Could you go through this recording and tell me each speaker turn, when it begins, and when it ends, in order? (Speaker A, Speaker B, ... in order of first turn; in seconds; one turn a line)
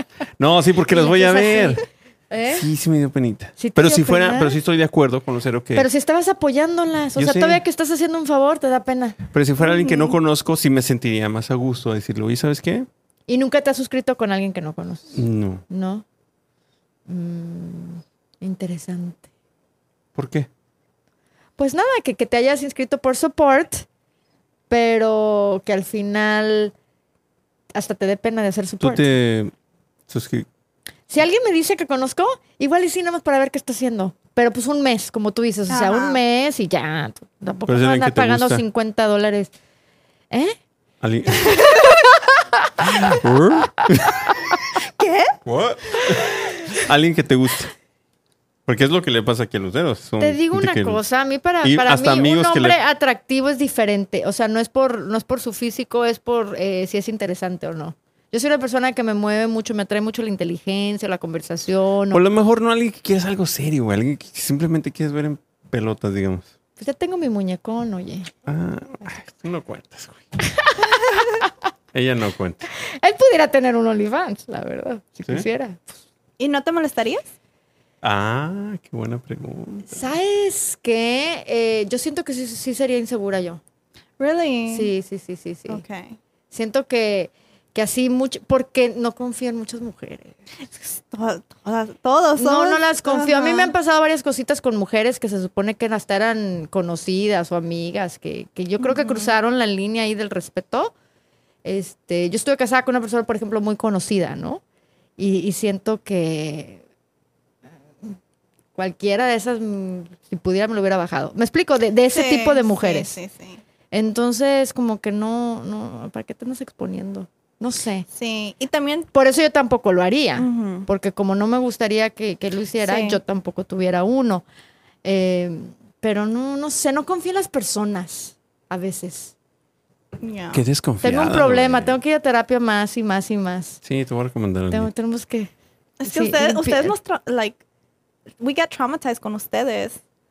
Speaker A: 0.4-1.8
Speaker B: 0.9-2.7
Speaker A: 2.5-5.9
Speaker B: 3.6-4.5
Speaker B: 5.7-9.2
Speaker A: 7.2-7.6
Speaker A: 9.3-12.9
Speaker C: 9.6-10.2
Speaker B: 13.3-16.0
Speaker A: 15.1-15.6
Speaker B: 17.1-19.2
Speaker A: 20.1-20.5
Speaker B: 21.6-23.9
Speaker B: 24.7-26.7
Speaker B: 27.7-29.0
Speaker A: 28.8-29.5
Speaker A: 30.1-30.5
Speaker B: 31.1-39.5
Speaker C: 35.7-36.2
Speaker A: 37.7-38.6
Speaker B: 40.3-40.6
Speaker A: 41.0-41.6
Speaker B: 41.5-43.2
Speaker A: 42.8-44.3
Speaker C: 44.8-45.4
Speaker A: 45.4-47.7
Speaker A: 48.6-51.0
Speaker B: 50.2-62.2
Speaker A: 51.6-52.8
Speaker A: 62.1-66.5
Speaker B: 66.8-68.3
Speaker A: 68.5-70.2
Speaker B: 70.4-71.5
Speaker A: 71.9-72.6
Speaker B: 72.8-75.9
Speaker C: 76.4-77.2
Speaker A: 78.0-80.1
Speaker B: 79.9-83.6
Speaker C: 84.2-84.9
Speaker B: 84.7-85.8
Speaker C: 85.7-86.2
Speaker B: 86.5-90.4
Speaker C: 91.0-93.7
Speaker B: 92.4-100.9
Speaker C: 98.8-99.3
Speaker B: 101.6-104.6
Speaker B: 105.2-106.8
Speaker B: 108.7-113.1
Speaker C: 112.1-113.6
Speaker B: 113.9-118.0
Speaker C: 118.1-119.1
Speaker B: 119.1-124.4
Speaker C: 120.3-120.9
Speaker C: 122.8-123.2
Speaker B: 125.0-129.3
Speaker C: 130.2-130.6
Speaker A: 130.5-132.0
Speaker B: 131.0-133.8
Speaker A: 133.8-134.9
Speaker B: 134.7-135.5
Speaker C: 136.0-137.6
Speaker B: 136.0-136.9
Speaker C: 138.4-140.0